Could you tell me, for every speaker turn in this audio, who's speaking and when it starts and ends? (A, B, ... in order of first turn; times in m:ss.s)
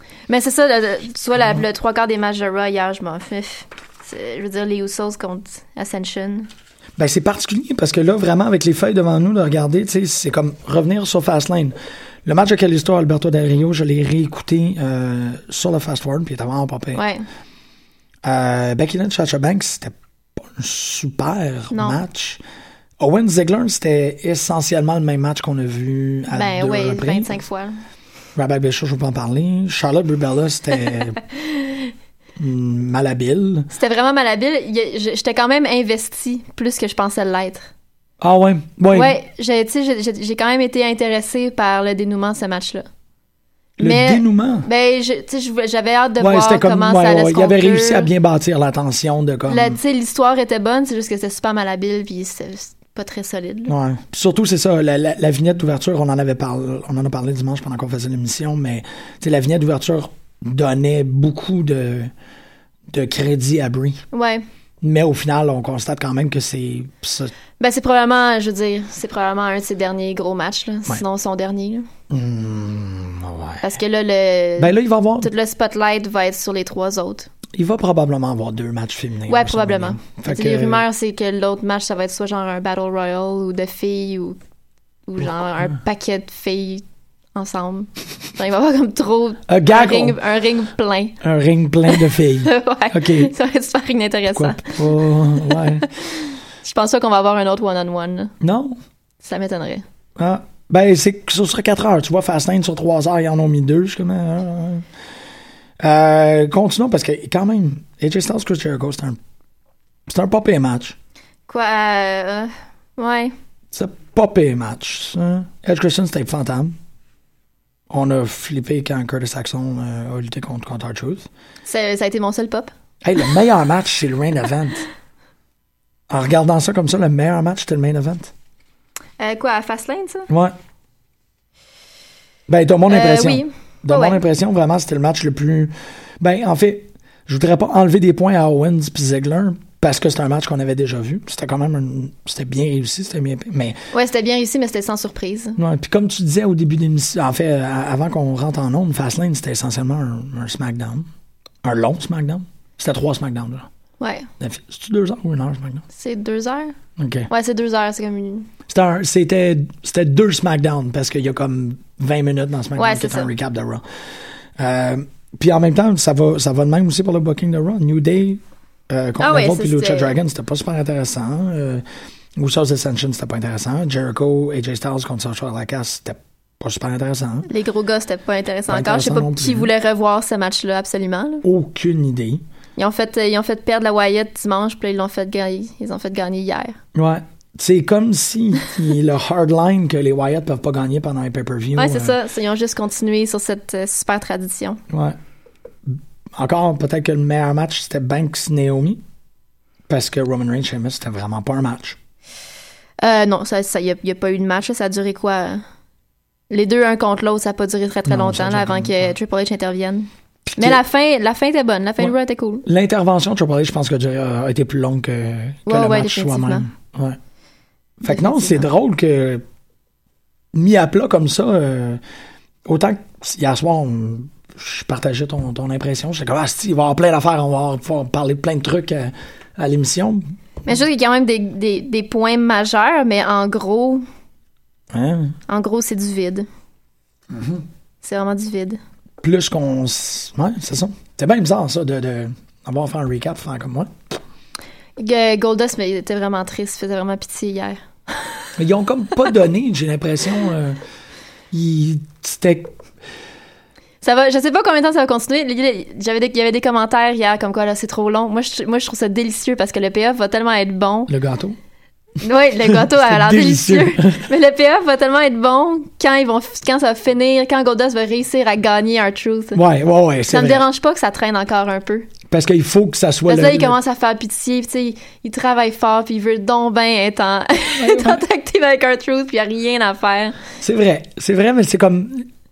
0:00.3-0:06.5 A
0:07.0-0:17.0 B
0:16.9-0:17.2 A
0:18.2-0:22.4 B
0:21.7-0:22.0 A
0:23.0-0:27.4 B
0:26.3-0:27.7 A
0:28.4-0:31.2 B
0:31.4-0:31.8 A
0:32.4-0:33.7 B
0:33.7-0:37.7 A
0:38.2-0:39.2 B
0:38.9-0:42.8 A
0:43.8-0:44.7 B
0:43.8-0:48.1 A
0:46.2-0:49.8 B
0:49.5-0:53.7 A
0:53.7-1:02.1 B
1:02.9-1:04.0 B
1:04.1-1:04.4 A
1:04.8-1:07.3 B
1:07.6-1:11.9 A
1:12.1-1:13.6 B
1:13.6-1:17.3 A
1:14.6-1:15.3 B
1:17.5-1:20.8 B
1:19.3-1:24.4 A
1:25.1-1:26.8 A
1:27.3-1:31.2 A
1:29.5-1:30.2 B
1:31.2-1:33.3 B
1:31.9-1:38.3 A
1:34.3-1:35.8 B
1:38.4-1:38.8 B
1:39.2-1:39.8 A
1:40.2-1:44.8 B
1:45.8-1:49.2 B
1:50.1-1:51.0 B
1:51.5-1:53.3 A
1:53.7-1:56.8 B
1:57.9-2:01.3 B
2:01.6-2:02.7 A
2:03.0-2:04.8 B
2:06.1-2:08.3 B
2:09.2-2:10.3 A
2:10.3-2:10.6 B
2:12.5-2:23.8 B
2:12.9-2:14.2 A
2:23.9-2:25.6 A
2:25.6-2:31.1 B
2:31.6-2:33.6 B
2:34.0-2:34.3 A
2:34.4-2:35.8 B
2:35.9-2:36.7 A
2:37.0-2:37.3 B
2:37.3-2:38.5 A
2:38.7-2:43.8 B
2:42.8-2:43.3 A
2:44.6-2:51.8 B
2:49.2-2:50.1 A
2:52.4-2:57.5 B
2:57.5-3:01.4 A
2:58.7-2:59.7 B
3:01.4-3:02.4 B
3:02.8-3:06.8 A
3:06.9-3:12.2 B
3:11.8-3:14.8 A
3:14.9-3:15.2 B
3:15.9-3:19.0 B
3:19.9-3:22.0 B
3:23.0-3:25.6 A
3:26.5-3:32.6 A
3:28.1-3:29.2 B
3:30.4-3:30.8 B
3:32.6-3:37.2 B
3:35.7-3:36.6 A
3:38.0-3:39.4 B
3:38.1-3:38.6 A
3:40.5-3:42.0 B
3:42.6-3:50.3 B
3:50.6-3:54.0 A
3:54.9-3:55.4 B
3:55.5-3:56.5 A
3:57.3-3:57.6 B
3:58.0-3:58.8 A
3:59.2-4:03.9 B
4:05.0-4:07.8 A
4:08.6-4:10.8 B
4:11.5-4:12.7 B
4:14.0-4:21.1 A
4:21.1-4:21.6 B
4:22.2-4:29.6 A
4:22.6-4:24.3 B
4:29.5-4:30.6 B
4:30.3-4:32.1 A
4:32.3-4:33.8 B
4:33.3-4:40.4 A
4:37.7-4:38.2 B
4:40.6-4:42.3 B